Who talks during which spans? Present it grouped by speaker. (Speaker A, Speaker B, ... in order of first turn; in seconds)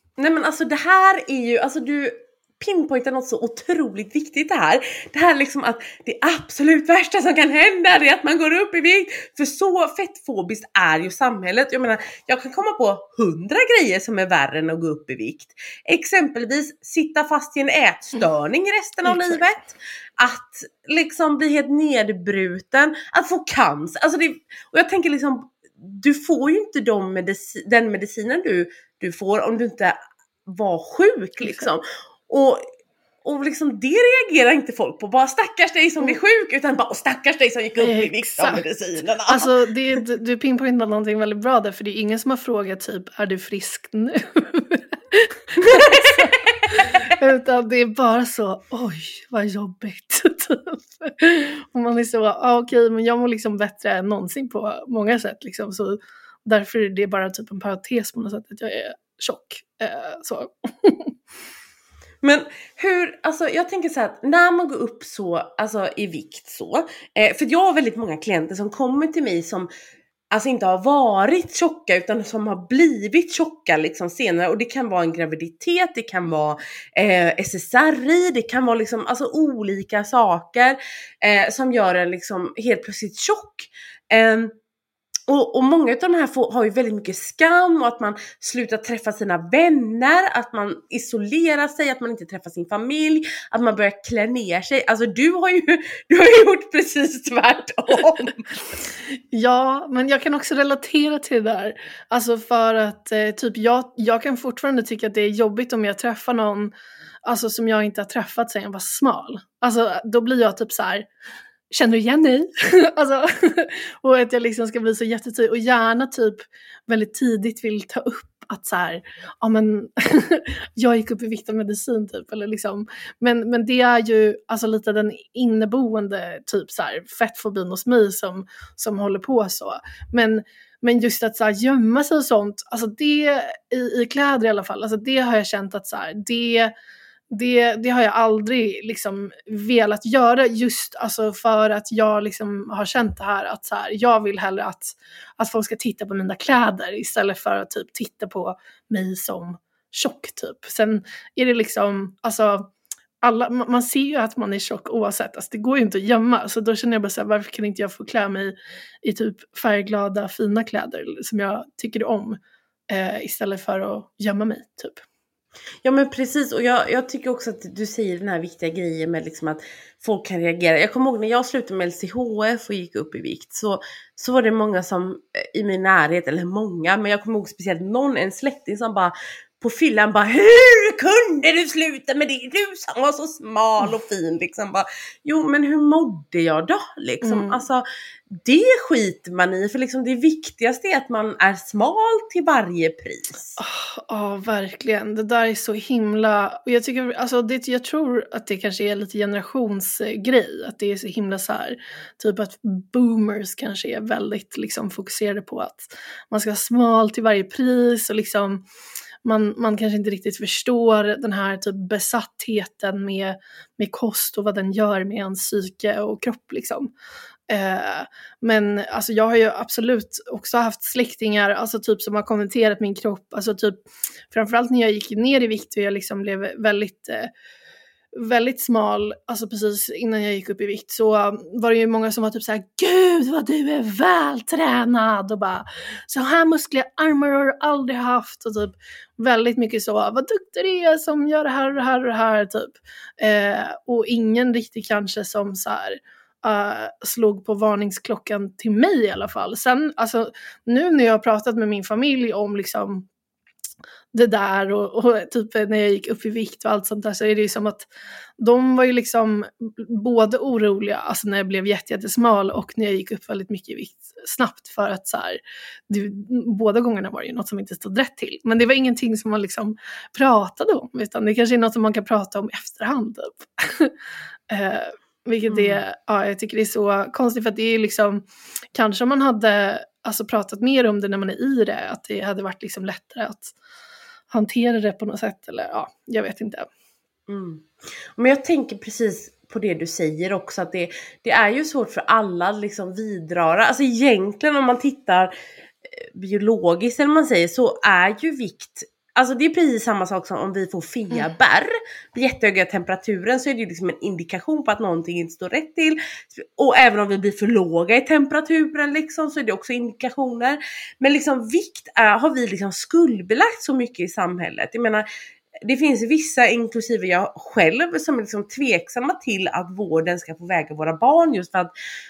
Speaker A: 0.2-32.6, 33.2-39.5, 45.6-47.1, 62.2-69.7, 70.3-84.5, 85.3-98.5, 165.8-187.8, 188.4-193.6, 275.5-275.8, 287.3-295.3, 295.9-315.1, 315.6-321.7
Speaker B: 19.1-19.5, 31.4-31.7, 37.8-38.6, 39.3-61.1, 99.3-106.7, 107.2-111.1, 111.7-136.7, 137.3-152.7, 153.2-165.0, 187.2-187.6, 193.6-208.7, 209.2-216.9, 217.5-227.3, 228.1-253.1, 254.1-273.9, 274.5-283.5, 284.3-286.7